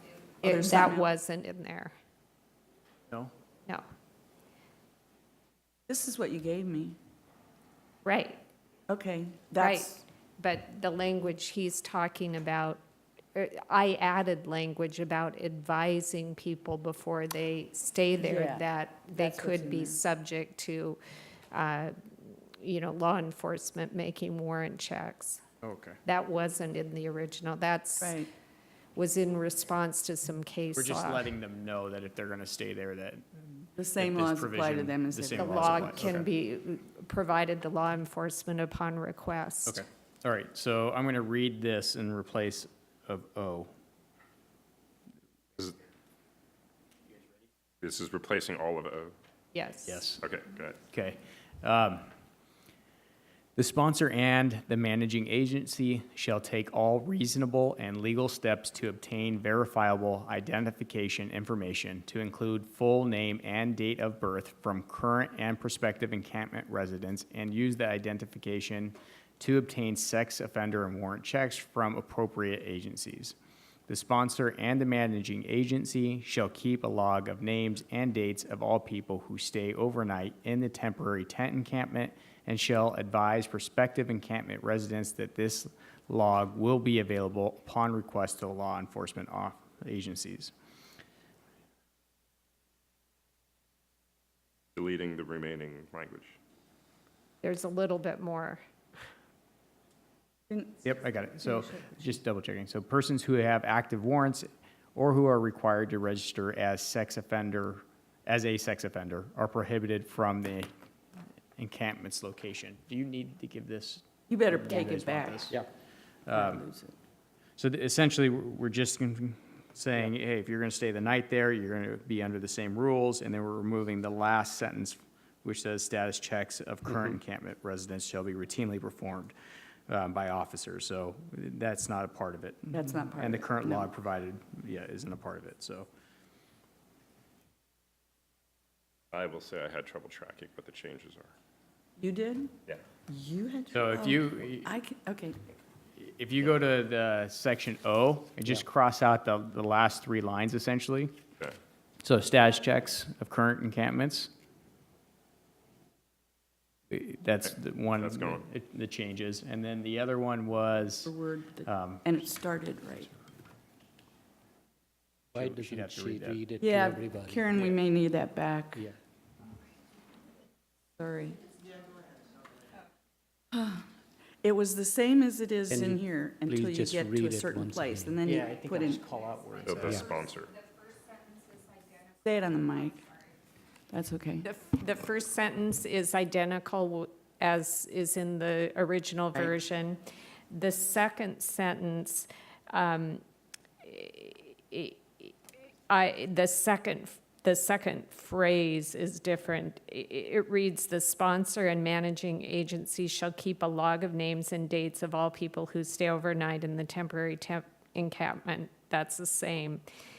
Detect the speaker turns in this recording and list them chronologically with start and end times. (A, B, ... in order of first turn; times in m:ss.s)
0:00.4-0:01.9 A
0:00.4-0:01.1 B
0:05.9-0:07.0 B
0:08.0-0:08.4 A
0:08.9-0:10.0 B
0:09.6-0:12.8 A
0:13.3-0:21.0 A
0:18.2-0:18.6 B
0:19.1-0:20.0 B
0:21.5-0:25.4 A
0:25.6-0:26.0 C
0:26.0-0:28.2 A
0:28.0-0:28.3 B
0:28.9-0:31.3 A
0:30.8-0:36.3 C
0:33.8-0:36.1 B
0:35.4-0:39.8 A
0:39.7-0:43.7 C
0:47.8-0:49.1 D
0:49.5-0:50.0 A
0:49.8-0:50.2 C
0:50.2-0:50.8 D
0:50.9-0:52.1 C
0:53.6-1:13.4 C
1:13.9-1:30.5 C
1:34.8-1:36.4 D
1:37.4-1:38.6 A
1:40.5-1:40.8 B
1:40.8-1:50.7 C
1:51.6-1:55.6 C
1:54.3-1:55.6 B
1:56.3-1:56.6 C
1:56.3-1:56.9 B
1:57.6-2:09.3 C
2:09.9-2:15.9 C
2:12.7-2:13.9 B
2:19.1-2:21.3 D
2:22.0-2:22.5 B
2:23.1-2:25.4 B
2:23.7-2:24.7 C
2:26.0-2:31.1 C
2:32.0-2:34.3 C
2:36.9-2:41.1 C
2:38.0-2:38.4 D
2:41.0-2:43.1 B
2:41.6-2:42.1 C
2:45.3-2:46.4 C
2:45.3-2:47.5 E
2:46.6-2:48.9 B
2:51.0-2:51.4 B
2:53.5-2:53.8 B
2:54.4-2:59.1 B
2:55.7-2:58.2 E
2:58.2-3:00.0 C
2:59.6-3:00.5 D
2:59.8-3:00.1 E
3:02.2-3:03.1 B
3:03.9-3:04.5 B
3:04.4-3:10.0 A
3:10.5-3:13.2 A
3:13.8-3:15.3 A
3:15.9-3:29.8 A